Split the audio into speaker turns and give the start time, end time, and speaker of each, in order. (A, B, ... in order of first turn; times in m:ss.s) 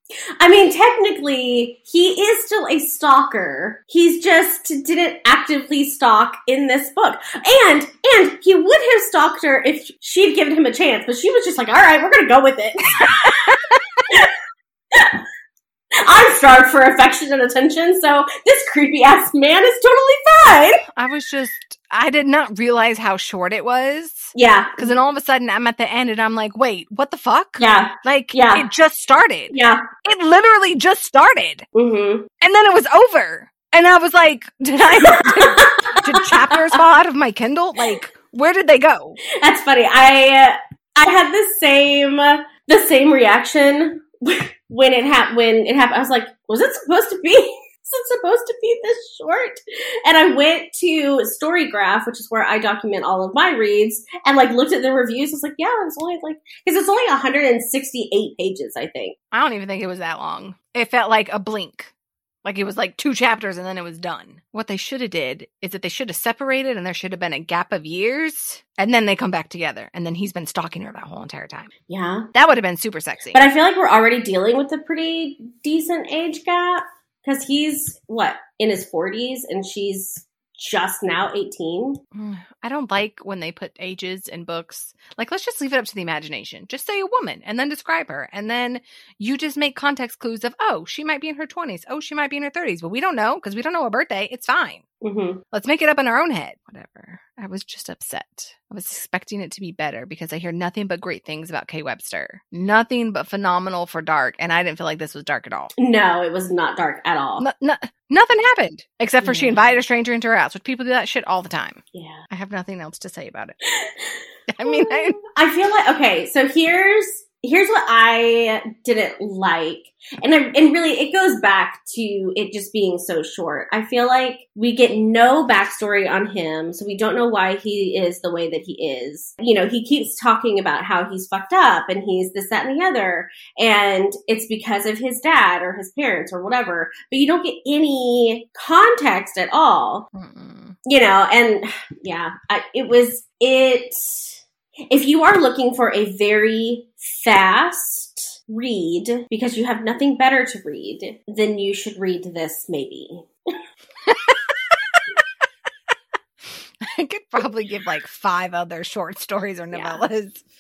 0:00.4-0:13.5 A
0:13.0-0:13.6 B
0:16.0-0:20.8 A
0:21.0-0:31.7 B
0:24.3-0:24.9 A
0:27.6-0:28.7 A
0:29.5-0:29.8 A
0:31.7-0:32.3 A
0:32.4-0:39.2 B
0:35.0-0:36.8 A
0:39.4-0:59.2 A
0:59.3-1:01.9 B
1:02.4-1:11.7 B
1:11.9-1:12.3 A
1:12.3-1:13.4 B
1:13.3-1:22.0 A
1:22.1-1:34.8 B
1:35.0-1:35.4 A
1:35.5-1:45.7 B
1:45.8-1:47.4 A
1:47.4-1:53.6 B
1:49.2-1:49.8 A
1:51.9-1:52.2 A
1:53.8-2:20.1 A
1:54.5-1:55.2 B
2:20.1-2:20.8 B
2:20.9-2:33.3 A
2:34.1-2:35.0 B
2:36.8-2:40.4 B
2:39.7-2:40.1 A